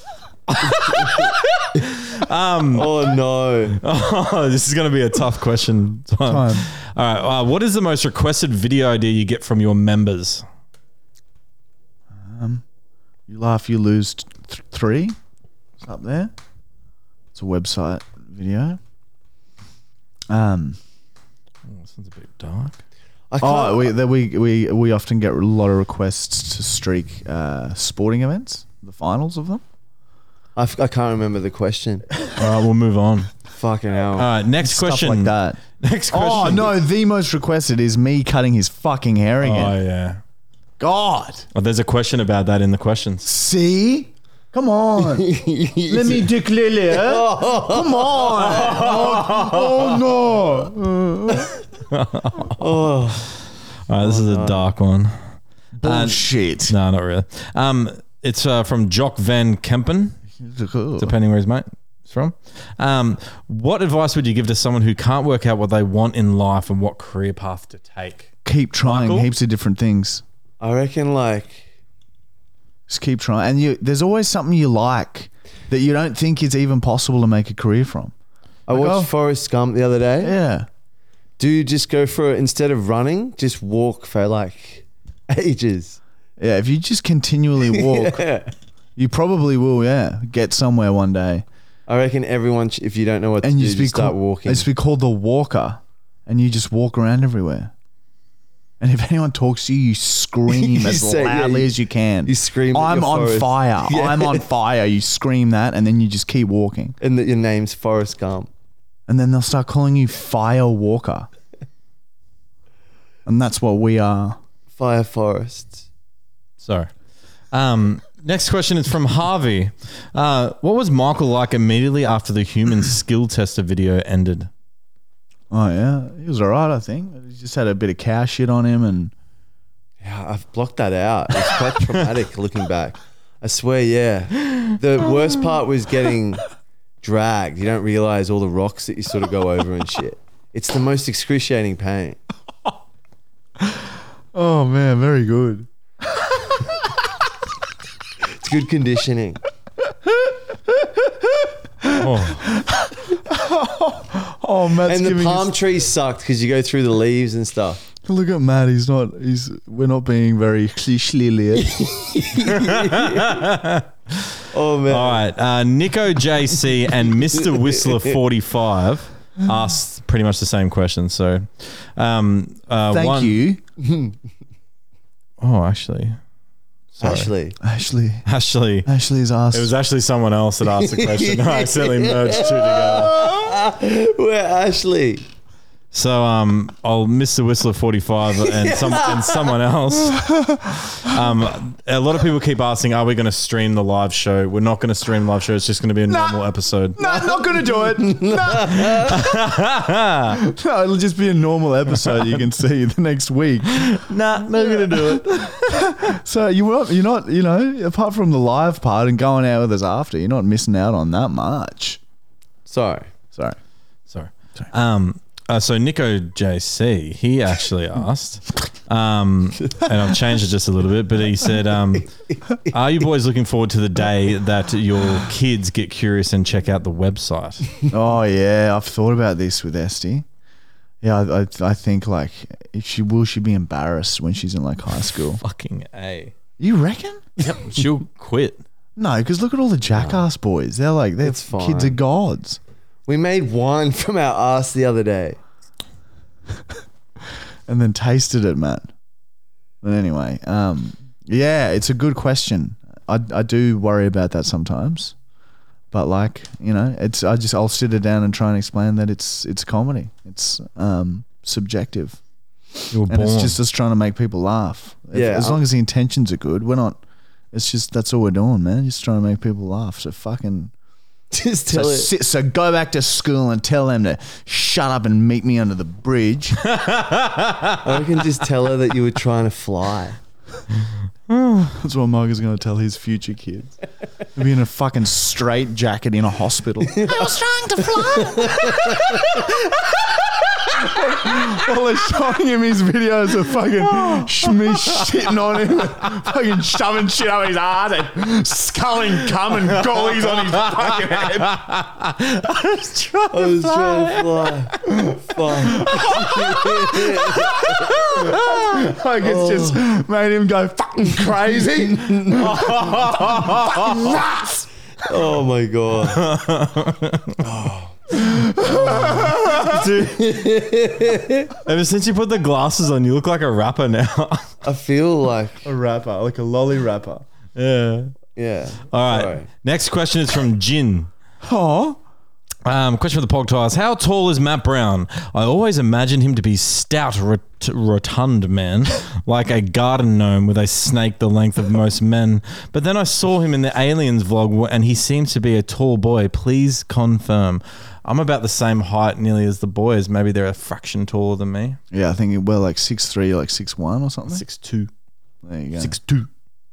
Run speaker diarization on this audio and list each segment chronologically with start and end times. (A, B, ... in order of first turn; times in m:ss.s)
0:00.5-0:03.0 A
0:02.7-0:03.8 B
0:03.7-0:10.4 A
0:06.2-0:06.7 C
0:12.1-0:12.6 C
0:13.3-0:15.2 C
0:15.8-0:16.3 C
0:17.3-0:18.8 C
0:20.3-0:20.8 C
0:21.7-0:22.8 A
0:23.3-0:23.9 B
0:23.4-0:29.6 C
0:30.5-0:32.1 B
0:32.3-0:33.4 A
0:33.5-0:34.3 B
0:34.2-0:36.8 A
0:34.6-0:39.8 C
0:39.4-0:40.2 A
0:40.8-0:41.5 C
0:41.5-0:43.3 A
0:43.2-0:51.5 C
0:45.1-0:46.3 B
0:46.9-0:48.9 B
0:48.4-0:49.9 A
0:51.9-0:52.5 A
0:52.6-0:53.3 B
0:53.9-0:55.1 A
0:54.0-0:54.7 B
0:55.8-0:56.7 C
0:55.8-1:00.2 A
1:00.4-1:01.1 C
1:01.0-1:08.3 A
1:08.4-1:10.2 C
1:08.8-1:09.3 A
1:10.6-1:11.7 B
1:12.9-1:18.1 C
1:18.7-1:20.3 B
1:18.7-1:19.1 C
1:20.2-1:20.7 C
1:21.4-1:26.0 B
1:26.4-1:28.3 C
1:27.7-1:28.5 B
1:29.0-1:31.4 C
1:31.9-1:34.7 B
1:33.4-1:37.7 C
1:38.8-1:47.0 C
1:40.5-1:41.7 B
1:42.2-1:44.4 B
1:47.0-1:48.5 B
1:49.1-1:51.3 C
1:53.2-1:54.4 C
1:54.8-1:55.8 B
1:56.6-1:56.9 A
1:57.5-2:04.5 A
2:05.5-2:09.1 C
2:10.0-2:16.5 B
2:17.0-2:22.2 B
2:23.7-2:25.7 C
2:26.2-2:26.7 C
2:28.2-2:29.4 B
2:30.3-2:35.6 C
2:31.9-2:32.5 A
2:34.8-2:37.8 B
2:38.0-2:41.9 C
2:41.6-2:43.4 B
2:42.4-2:53.4 A
2:44.5-2:45.2 B
2:52.9-2:53.6 C
2:53.8-2:54.2 B
2:55.4-2:56.2 A
2:56.9-2:57.3 A
2:57.0-2:57.6 B
2:57.6-2:58.3 C
2:58.2-2:58.9 A
2:58.8-2:59.7 C
2:59.5-3:03.4 A
3:00.6-3:05.2 B
3:05.9-3:10.3 A
3:08.3-3:09.6 B
3:10.3-3:10.9 C
3:10.9-3:17.0 A
3:16.1-3:16.4 C
3:17.0-3:19.5 C
3:17.0-3:19.2 B
3:18.8-3:20.4 A
3:20.3-3:24.0 C
3:22.0-3:22.4 A
3:23.7-3:26.0 A
3:24.9-3:32.0 C
3:32.6-3:33.1 B
3:33.3-3:33.6 C
3:34.1-3:42.1 A
3:42.7-3:47.7 A
3:47.9-3:50.2 C
3:51.0-3:55.4 C
3:55.4-3:56.3 A
3:56.6-3:57.2 C
3:57.4-3:57.8 B
3:57.4-3:58.6 A
3:59.0-4:02.6 C
3:59.9-4:00.2 B
4:01.2-4:02.0 B
4:03.1-4:05.4 B
4:07.7-4:08.9 C
4:09.8-4:15.1 C
4:15.9-4:22.2 C
4:22.8-4:27.0 C
4:22.9-4:23.6 A
4:25.1-4:25.6 B
4:27.5-4:30.7 C
4:31.3-4:32.1 B
4:31.7-4:36.6 C
4:36.6-4:38.1 A
4:37.8-4:40.2 B
4:41.3-4:41.7 A
4:41.7-4:43.8 C
4:44.3-5:01.6 C
4:46.8-4:47.4 B
4:47.9-4:49.4 B
4:54.6-4:55.0 A
4:59.7-5:04.6 A
5:03.3-5:08.1 B
5:04.9-5:05.2 C
5:05.7-5:06.0 C
5:05.8-5:06.2 A
5:07.3-5:14.7 C
5:09.2-5:09.8 B
5:11.9-5:12.4 B
5:12.3-5:14.1 A
5:15.0-5:16.2 B
5:16.0-5:17.4 A
5:17.4-5:21.5 B
5:18.1-5:19.8 C
5:19.6-5:20.6 A
5:21.6-5:24.5 A
5:24.6-5:25.6 B
5:25.6-5:27.2 C
5:27.6-5:28.1 A
5:28.4-5:29.5 B
5:28.9-5:31.1 A
5:31.4-5:32.0 C
5:32.6-5:51.8 A
5:51.9-5:54.4 C
5:54.3-5:54.9 A
5:55.4-5:56.0 C
5:55.8-5:56.3 A